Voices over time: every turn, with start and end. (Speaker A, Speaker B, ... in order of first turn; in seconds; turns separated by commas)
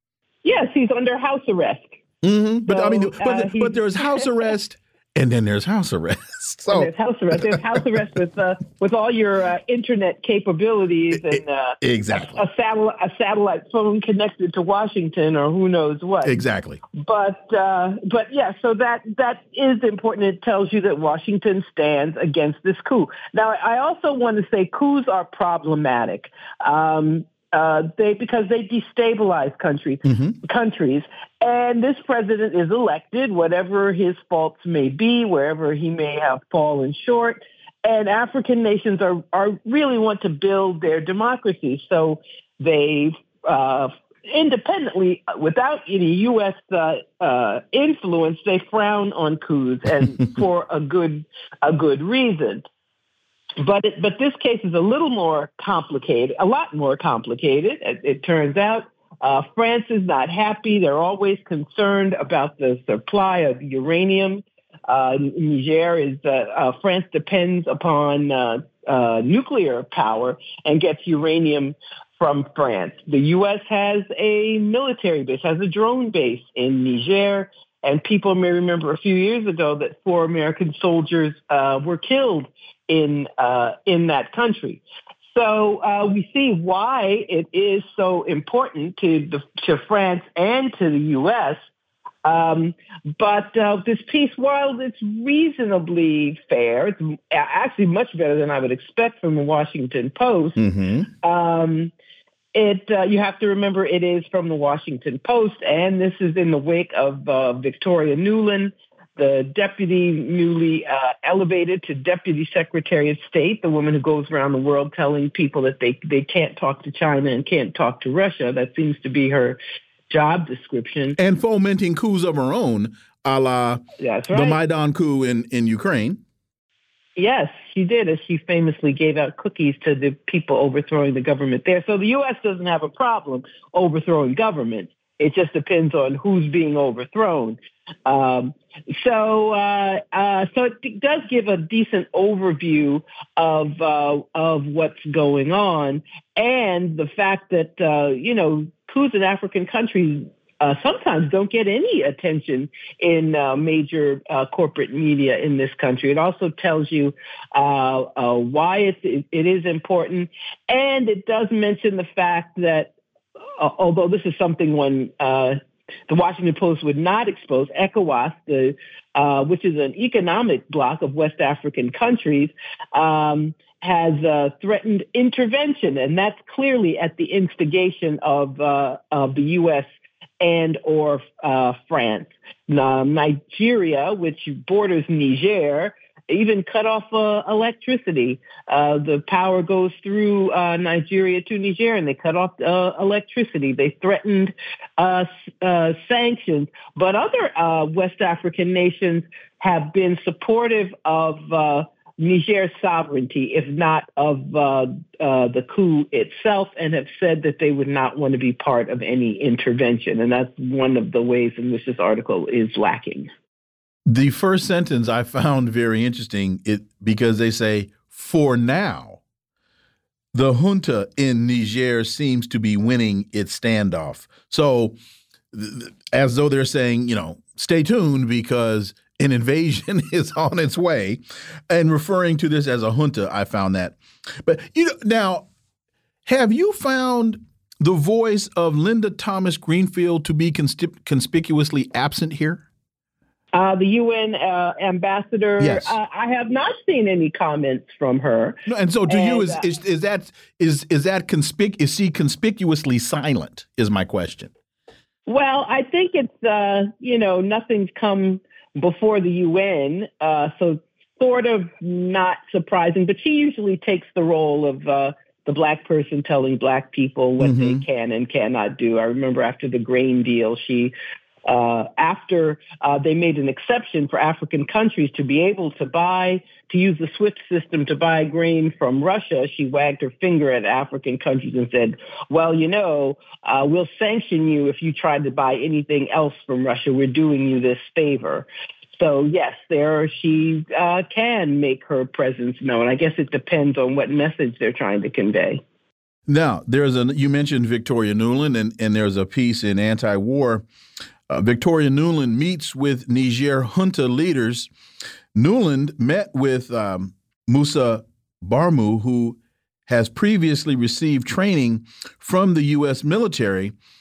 Speaker A: 0.4-1.9, Speaker B: 2.2-7.8, Speaker A: 2.7-4.5, Speaker A: 6.7-16.4, Speaker B: 11.1-12.4, Speaker B: 16.2-16.8, Speaker A: 17.0-52.7, Speaker B: 30.1-30.4, Speaker A: 53.6-91.6, Speaker A: 92.2-100.6, Speaker B: 100.6-101.1, Speaker A: 101.2-101.9, Speaker A: 102.5-121.2, Speaker B: 121.2-126.2, Speaker A: 124.0-124.6, Speaker A: 127.2-162.9, Speaker A: 163.6-179.9, Speaker A: 180.4-213.3, Speaker B: 214.1-219.2, Speaker B: 220.3-224.9, Speaker B: 225.5-235.5, Speaker B: 236.3-242.6, Speaker A: 243.5-249.7, Speaker B: 245.6-246.0, Speaker B: 248.7-254.5, Speaker A: 255.3-295.6, Speaker B: 267.4-267.9, Speaker B: 296.3-300.6, Speaker B: 301.3-304.7, Speaker B: 305.4-309.4, Speaker B: 309.9-313.7